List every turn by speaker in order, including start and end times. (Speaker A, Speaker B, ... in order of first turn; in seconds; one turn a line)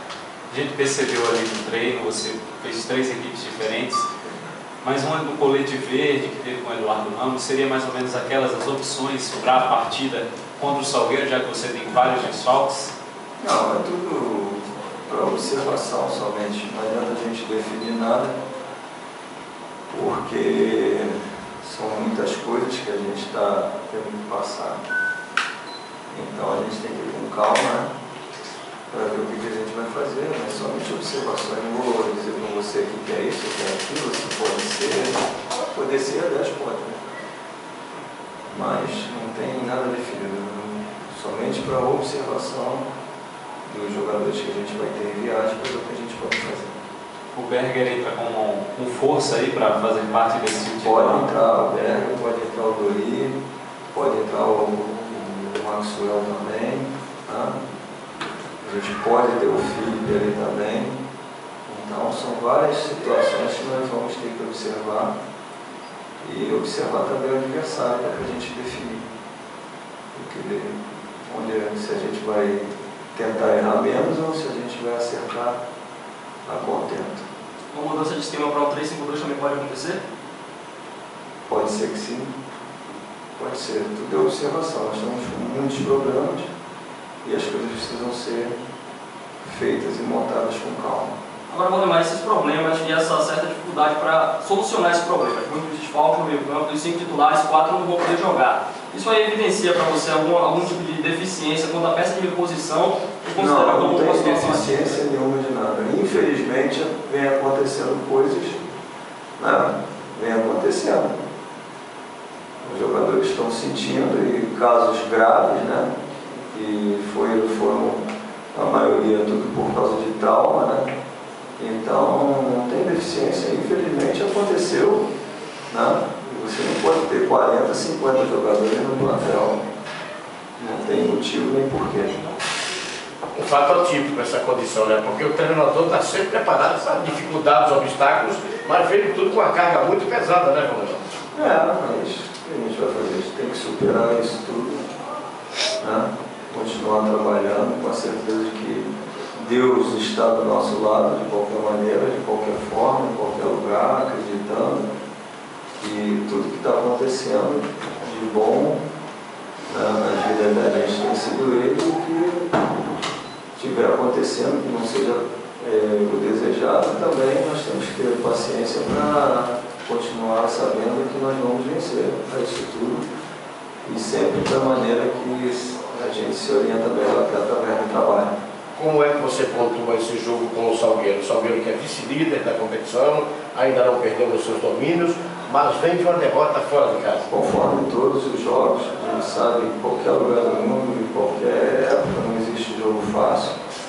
Speaker A: 0.5-4.0
Speaker A: 4.8-12.9
Speaker B: 13.4-18.4
Speaker B: 19.9-24.8
Speaker B: 26.1-27.9
Speaker B: 28.9-37.0
Speaker B: 38.5-42.8
Speaker B: 43.6-46.7
Speaker A: 47.3-51.3
Speaker B: 50.8-53.4
Speaker B: 53.9-57.6
Speaker B: 58.6-61.0
Speaker B: 61.6-65.1
Speaker B: 66.2-69.1
Speaker B: 70.1-75.6
Speaker B: 76.4-77.3
Speaker C: 77.7-80.0
Speaker B: 81.5-82.3
Speaker B: 83.4-86.5
Speaker B: 87.2-88.5
Speaker B: 89.4-91.1
Speaker C: 91.5-105.0
Speaker B: 103.3-108.6
Speaker B: 109.4-111.1
Speaker B: 112.6-120.9
Speaker B: 121.6-125.1
Speaker B: 125.7-129.6
Speaker B: 130.6-132.3
Speaker D: 133.4-141.0
Speaker B: 141.3-144.8
Speaker B: 145.8-154.8
Speaker B: 155.8-158.8
Speaker B: 159.7-162.5
Speaker B: 163.6-173.0
Speaker B: 173.8-178.3
Speaker D: 178.8-187.2
Speaker B: 187.3-193.6